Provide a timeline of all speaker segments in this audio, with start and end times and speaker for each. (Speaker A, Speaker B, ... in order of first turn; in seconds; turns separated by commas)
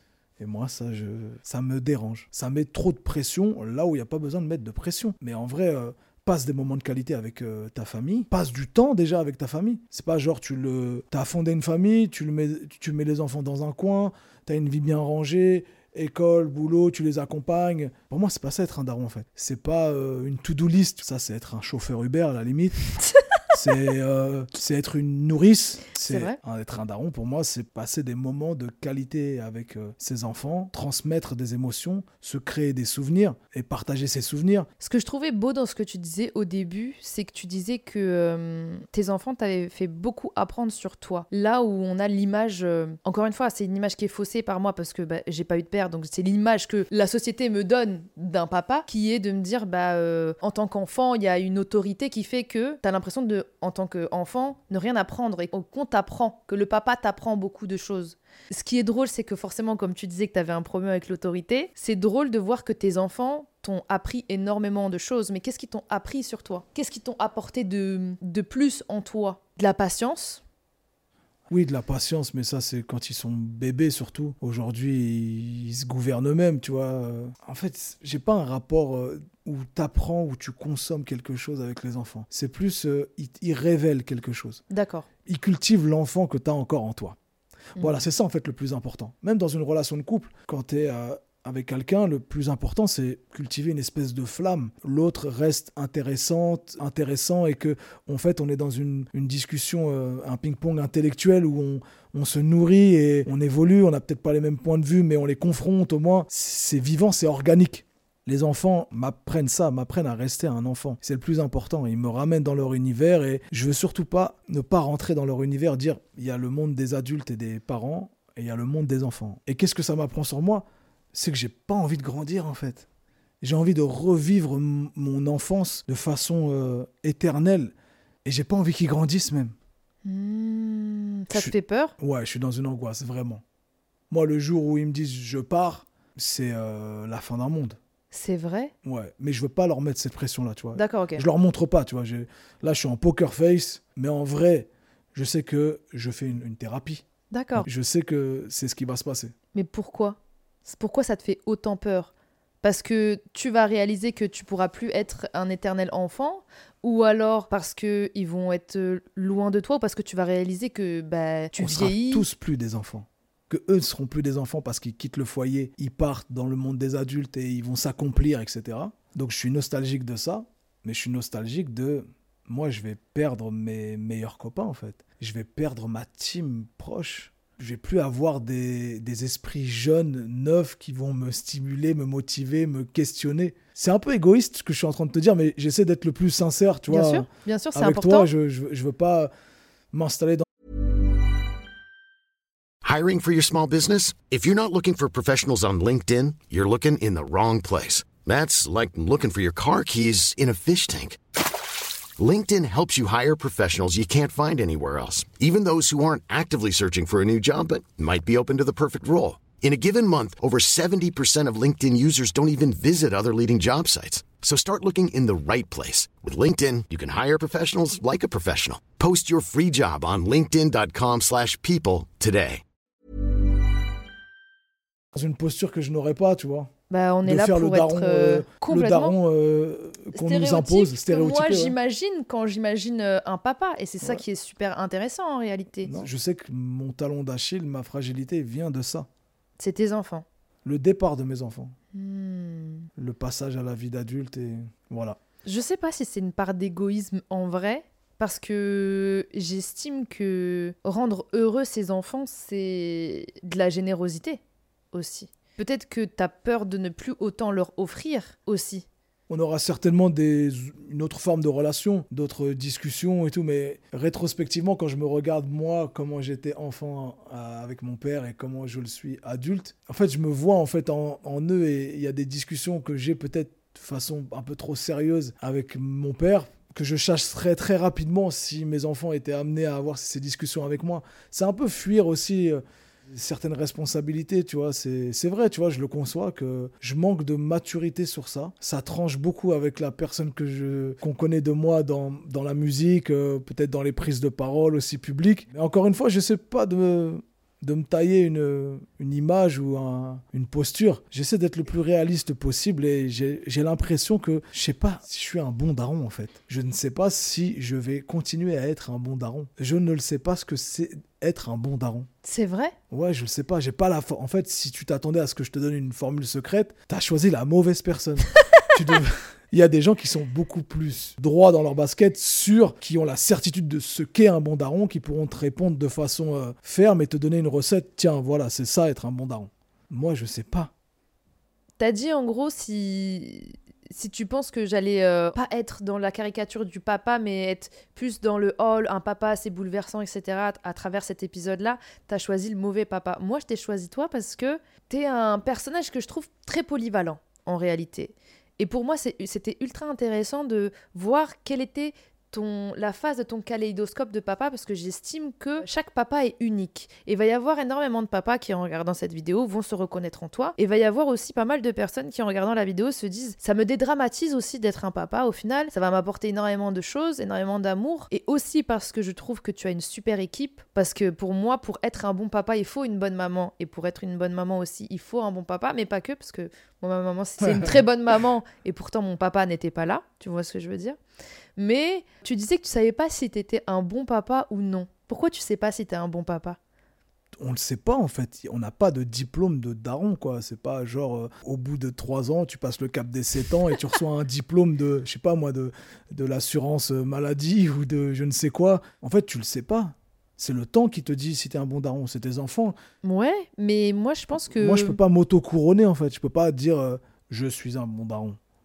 Speaker A: 0.4-22.8, Speaker A: 23.5-34.7, Speaker B: 26.1-26.4, Speaker B: 34.8-70.4, Speaker A: 71.5-84.6, Speaker B: 84.7-85.1, Speaker A: 85.2-87.2, Speaker A: 87.8-122.9, Speaker B: 87.8-88.0, Speaker A: 123.4-127.7, Speaker A: 128.2-129.6, Speaker B: 130.1-131.9, Speaker A: 131.3-133.4, Speaker A: 134.1-137.8, Speaker B: 138.1-138.7, Speaker A: 138.8-147.0, Speaker B: 140.8-141.2, Speaker B: 147.3-147.7, Speaker A: 147.6-149.3, Speaker B: 149.5-152.1, Speaker B: 152.6-162.3, Speaker A: 161.6-189.3, Speaker B: 186.9-188.3, Speaker A: 189.9-190.4, Speaker C: 192.8-201.2, Speaker C: 202.2-222.6, Speaker A: 225.1-226.7, Speaker B: 226.9-229.2, Speaker A: 227.2-231.8, Speaker B: 230.1-235.9, Speaker A: 235.8-239.1, Speaker B: 239.6-240.2, Speaker A: 240.7-241.8, Speaker B: 241.9-242.9, Speaker A: 243.0-245.2, Speaker B: 245.4-254.4, Speaker B: 254.9-258.9, Speaker A: 259.3-312.1, Speaker B: 312.2-312.8, Speaker A: 312.9-330.7, Speaker B: 331.8-381.0, Speaker A: 377.4-377.8, Speaker B: 381.6-386.6, Speaker A: 387.4-402.8, Speaker B: 403.0-405.0, Speaker A: 404.5-408.4